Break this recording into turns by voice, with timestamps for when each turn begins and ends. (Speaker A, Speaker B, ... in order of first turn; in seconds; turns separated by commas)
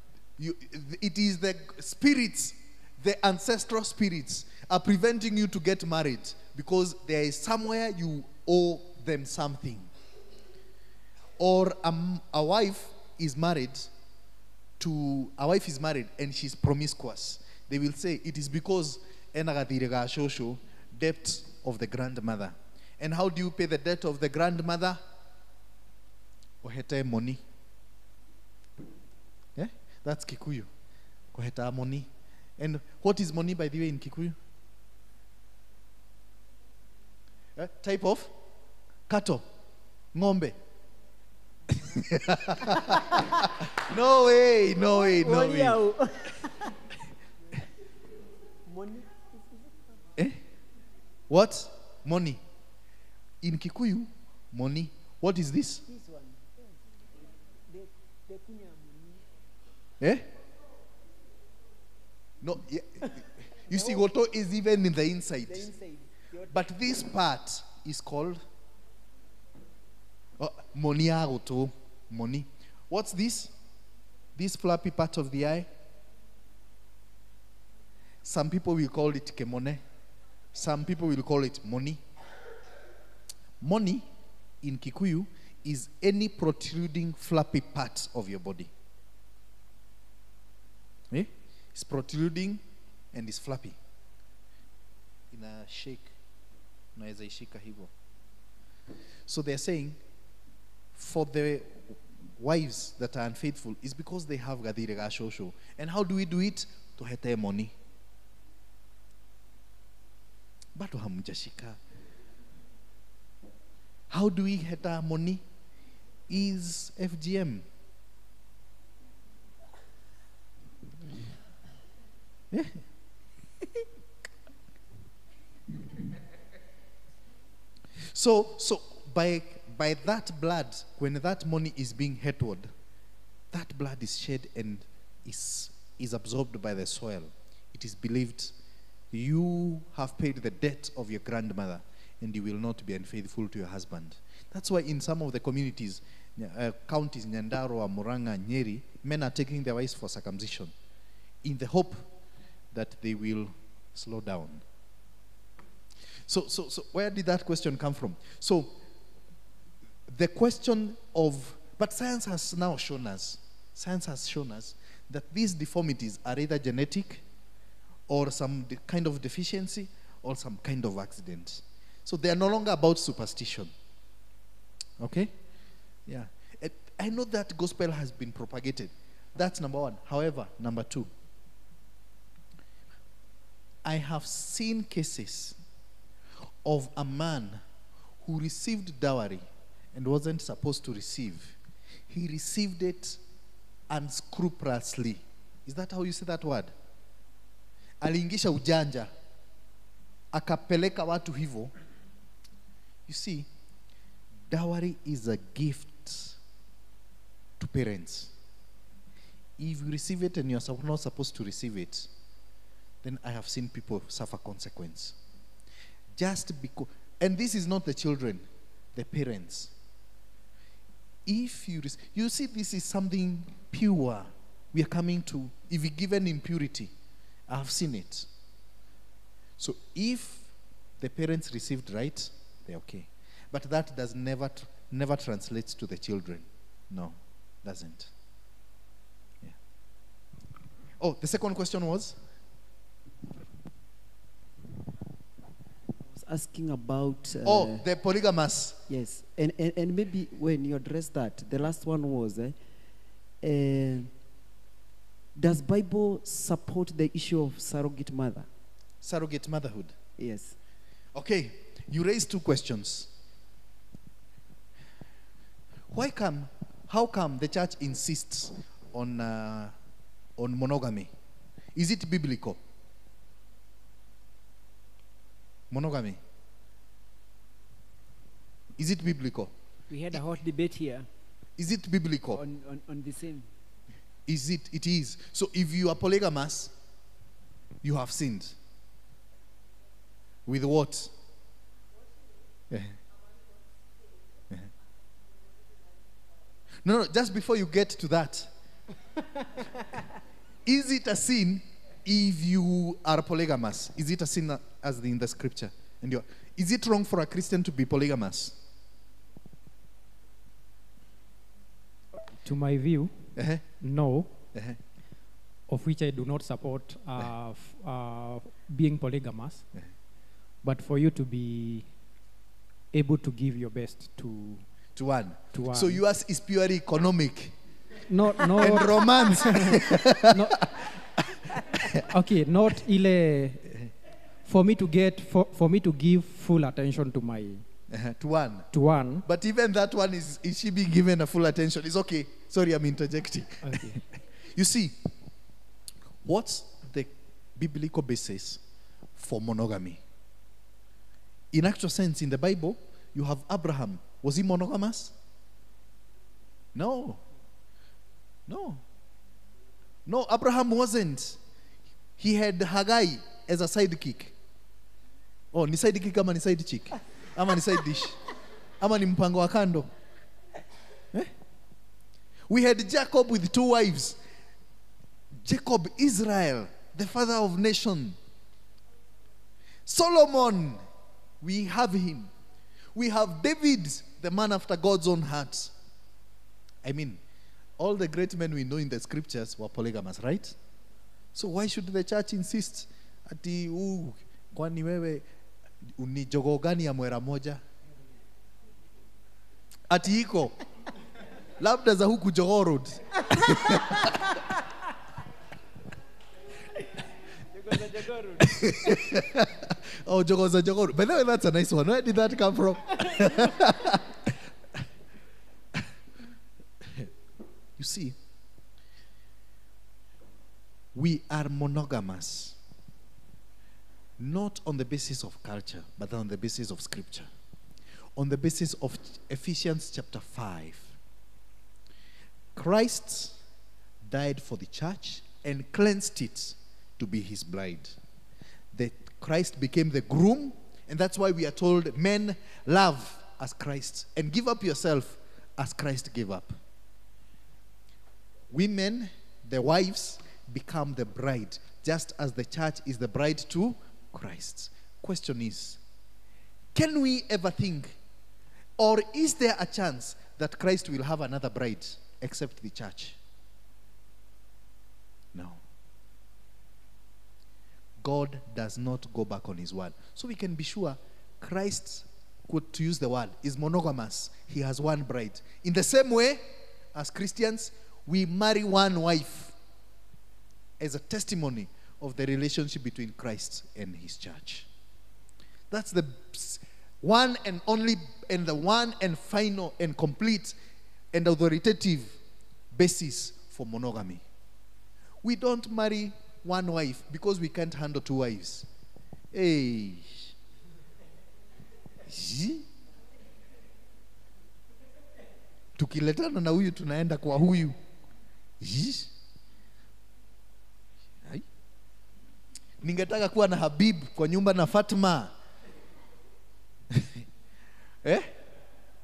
Speaker A: 0.4-9.9, Speaker A: 11.4-13.9, Speaker A: 14.8-25.0, Speaker A: 26.6-27.4, Speaker A: 29.5-30.7, Speaker A: 31.3-34.4, Speaker A: 37.5-38.3, Speaker A: 39.1-39.5, Speaker A: 40.1-40.6, Speaker A: 41.7-45.8, Speaker B: 44.8-46.7, Speaker B: 48.6-49.9, Speaker A: 51.3-52.4, Speaker A: 53.4-55.8, Speaker B: 55.9-56.8, Speaker B: 57.7-59.2, Speaker A: 60.0-60.3, Speaker A: 62.4-65.7, Speaker B: 63.0-64.0, Speaker B: 65.5-66.7, Speaker A: 66.5-68.4, Speaker A: 70.4-73.5, Speaker A: 74.3-75.7, Speaker A: 78.2-79.8, Speaker A: 80.5-82.0, Speaker A: 83.6-84.1, Speaker A: 84.6-88.7, Speaker A: 91.1-93.8, Speaker A: 95.3-96.1, Speaker A: 96.9-97.9, Speaker A: 99.3-100.0, Speaker A: 100.9-107.7, Speaker A: 110.7-111.8, Speaker A: 114.1-115.4, Speaker A: 116.3-117.7, Speaker A: 122.5-122.8, Speaker A: 128.0-132.7, Speaker A: 133.5-138.5, Speaker A: 139.1-150.7, Speaker A: 151.4-152.1, Speaker A: 152.7-154.6, Speaker A: 156.3-158.7, Speaker A: 160.1-167.2, Speaker A: 168.1-173.7, Speaker A: 175.0-175.3, Speaker A: 176.1-181.1, Speaker A: 183.8-185.6, Speaker A: 186.6-187.6, Speaker A: 188.2-191.6, Speaker A: 192.1-193.2, Speaker A: 193.9-196.7, Speaker A: 198.0-199.1, Speaker A: 200.3-201.7, Speaker A: 203.1-203.5, Speaker A: 204.5-206.4, Speaker A: 207.6-208.3, Speaker A: 209.6-212.1, Speaker A: 213.0-215.2, Speaker A: 216.1-219.7, Speaker A: 221.2-226.9, Speaker A: 227.5-228.3, Speaker A: 229.6-238.1, Speaker A: 241.0-242.2, Speaker C: 246.1-247.8, Speaker A: 247.4-248.8, Speaker C: 248.9-252.6, Speaker C: 253.4-254.1, Speaker C: 255.3-258.5, Speaker A: 259.0-259.9, Speaker C: 260.2-260.6, Speaker A: 261.1-263.1, Speaker A: 265.9-269.8, Speaker A: 270.4-271.1, Speaker A: 271.7-272.6, Speaker A: 275.7-276.2, Speaker A: 278.8-279.5, Speaker B: 279.9-281.1, Speaker A: 281.6-282.4, Speaker B: 282.3-283.5, Speaker A: 284.2-286.7, Speaker A: 287.8-288.6, Speaker A: 290.4-291.1, Speaker A: 292.7-293.0, Speaker A: 296.8-298.5, Speaker A: 300.6-308.6, Speaker D: 312.4-314.3, Speaker A: 313.4-313.7, Speaker D: 315.7-319.7, Speaker D: 320.6-321.9, Speaker D: 322.9-324.6, Speaker A: 324.9-327.5, Speaker D: 325.5-326.0, Speaker D: 328.1-330.9, Speaker A: 328.5-331.2, Speaker D: 331.8-333.7, Speaker A: 331.8-332.0, Speaker D: 334.4-337.6, Speaker A: 337.9-338.7, Speaker D: 338.7-339.2, Speaker A: 339.2-345.1, Speaker D: 343.6-344.0, Speaker A: 346.2-348.6, Speaker A: 349.1-350.0, Speaker A: 351.5-355.1, Speaker A: 356.7-357.2, Speaker A: 358.5-358.8, Speaker A: 360.1-361.4, Speaker A: 362.2-364.3, Speaker A: 365.5-368.2, Speaker A: 368.8-369.9, Speaker A: 372.5-374.2, Speaker A: 375.4-378.2, Speaker A: 379.9-380.8, Speaker A: 381.4-382.3, Speaker A: 382.9-385.7, Speaker A: 386.8-387.2, Speaker A: 387.8-390.6, Speaker A: 391.3-395.2, Speaker A: 395.8-397.6, Speaker A: 399.9-400.5, Speaker A: 401.6-404.0, Speaker B: 407.5-409.0, Speaker A: 408.4-414.3, Speaker A: 416.8-417.1, Speaker A: 417.8-418.2, Speaker A: 420.9-422.6, Speaker A: 424.2-427.3, Speaker A: 428.1-431.0, Speaker A: 432.5-433.4, Speaker A: 434.0-437.9, Speaker A: 438.7-446.6, Speaker A: 448.5-455.8, Speaker A: 456.7-458.0, Speaker A: 458.8-463.2, Speaker A: 465.3-465.6, Speaker A: 468.0-476.4, Speaker A: 476.9-479.5, Speaker A: 480.8-484.7, Speaker A: 485.7-490.6, Speaker A: 491.1-492.2, Speaker A: 492.7-494.2, Speaker A: 495.2-498.7, Speaker A: 499.3-500.3, Speaker A: 502.0-502.6, Speaker A: 505.8-507.8, Speaker A: 508.6-509.1, Speaker A: 512.8-515.3, Speaker A: 516.9-517.2, Speaker A: 518.0-518.3